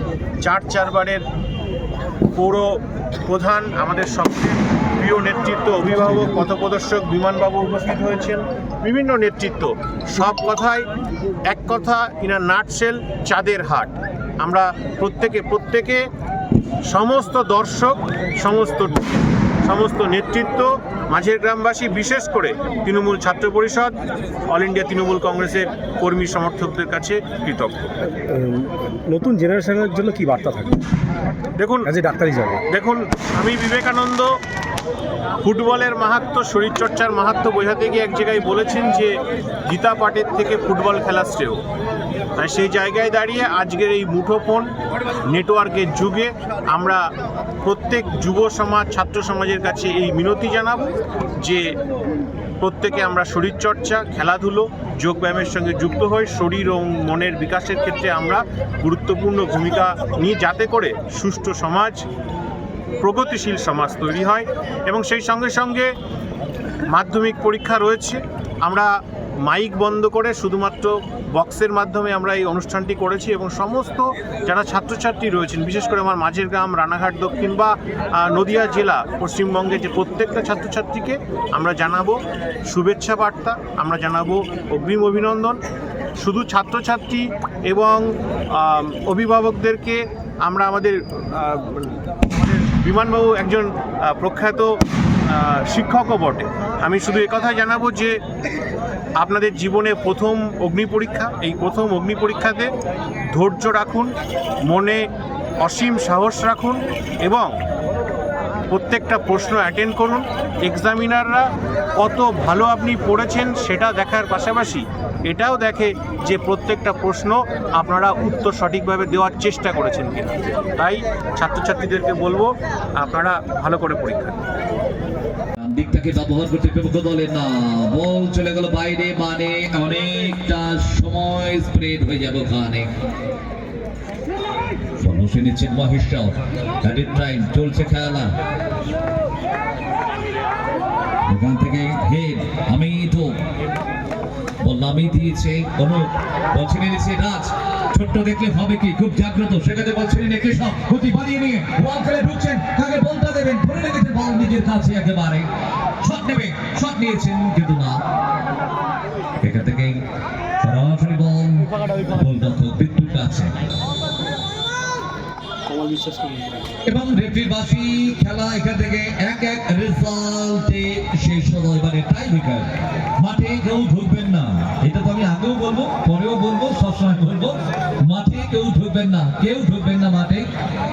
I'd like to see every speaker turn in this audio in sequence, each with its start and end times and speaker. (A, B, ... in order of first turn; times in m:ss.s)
0:00.4-0:01.2 A
0:02.4-0:10.9 A
0:11.5-0:16.1 A
0:16.9-0:19.1 A
0:19.6-0:24.0 A
0:24.5-0:27.9 A
0:28.1-0:30.8 B
0:31.6-0:31.9 A
0:31.8-0:32.6 B
0:32.7-0:34.4 A
0:35.4-0:41.6 A
0:42.4-0:44.7 A
0:45.3-0:47.1 A
0:47.6-0:51.7 A
0:52.6-1:02.0 A
1:03.0-1:05.9 A
1:06.9-1:08.9 A
1:09.4-1:25.6 A
1:26.2-1:38.2 A
1:39.2-1:42.7 A
1:43.3-1:44.1 A
1:44.7-1:45.0 A
1:45.6-1:47.5 A
1:48.7-2:04.4 A
2:05.6-2:12.9 C
2:15.0-2:18.3 C
2:21.3-2:23.4 C
2:24.6-2:35.5 C
2:36.0-2:38.0 C
2:39.4-2:40.0 C
2:40.6-2:43.5 C
2:45.7-2:46.5 B
2:46.8-2:52.7 C
2:53.2-3:00.5 C